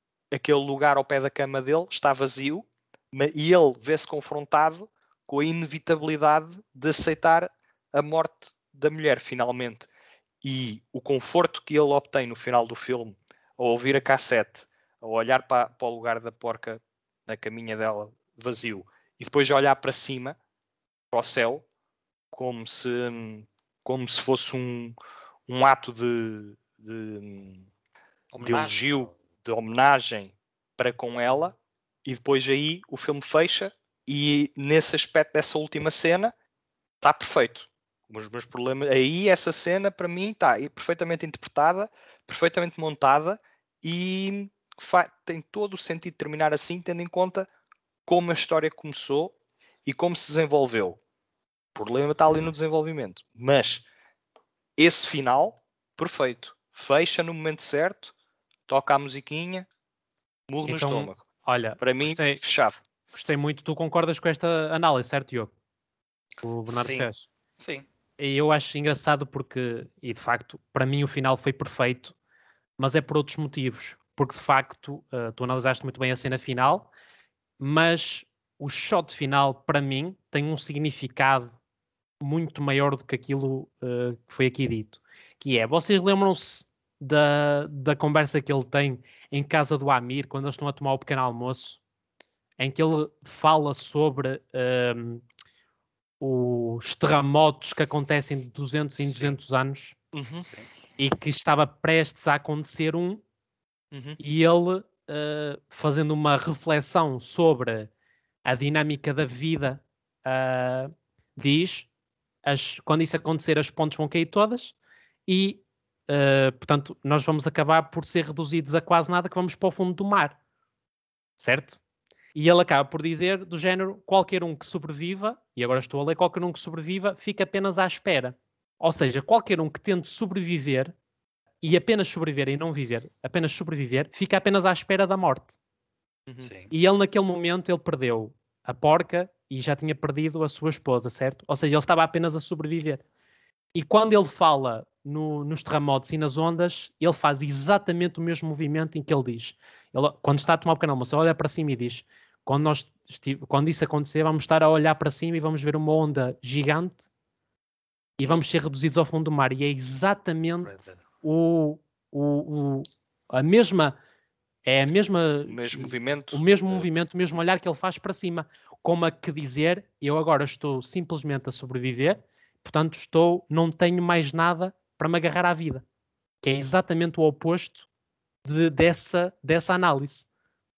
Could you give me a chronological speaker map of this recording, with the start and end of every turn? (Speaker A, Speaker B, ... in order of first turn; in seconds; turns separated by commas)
Speaker A: 0.3-9.9, Speaker A: 10.4-20.4, Speaker A: 21.1-21.6, Speaker A: 22.3-24.9, Speaker A: 25.5-27.7, Speaker B: 28.3-28.9, Speaker A: 28.4-36.3, Speaker A: 37.0-47.5, Speaker A: 48.1-51.0, Speaker A: 51.8-53.9, Speaker A: 54.8-58.1, Speaker A: 58.7-59.7, Speaker A: 60.5-61.2, Speaker C: 60.7-62.4, Speaker A: 61.8-62.8, Speaker C: 63.1-65.5, Speaker C: 66.4-67.3, Speaker B: 66.7-67.8, Speaker C: 68.2-72.1, Speaker C: 72.8-76.9, Speaker C: 77.6-81.6, Speaker C: 82.2-91.8, Speaker C: 92.6-95.2, Speaker C: 96.2-100.0, Speaker B: 98.9-99.4, Speaker A: 100.1-100.5, Speaker C: 101.0-103.2, Speaker A: 103.9-104.2, Speaker C: 104.2-107.9, Speaker C: 108.5-111.9, Speaker C: 112.5-114.8, Speaker C: 115.3-120.4, Speaker C: 121.4-121.8, Speaker C: 122.3-130.9, Speaker C: 131.6-135.6, Speaker B: 136.4-136.7, Speaker C: 136.7-143.0, Speaker C: 143.8-157.1, Speaker C: 158.2-164.0, Speaker B: 160.6-161.0, Speaker C: 164.7-175.8, Speaker A: 165.5-166.8, Speaker C: 176.4-177.9, Speaker C: 178.4-180.3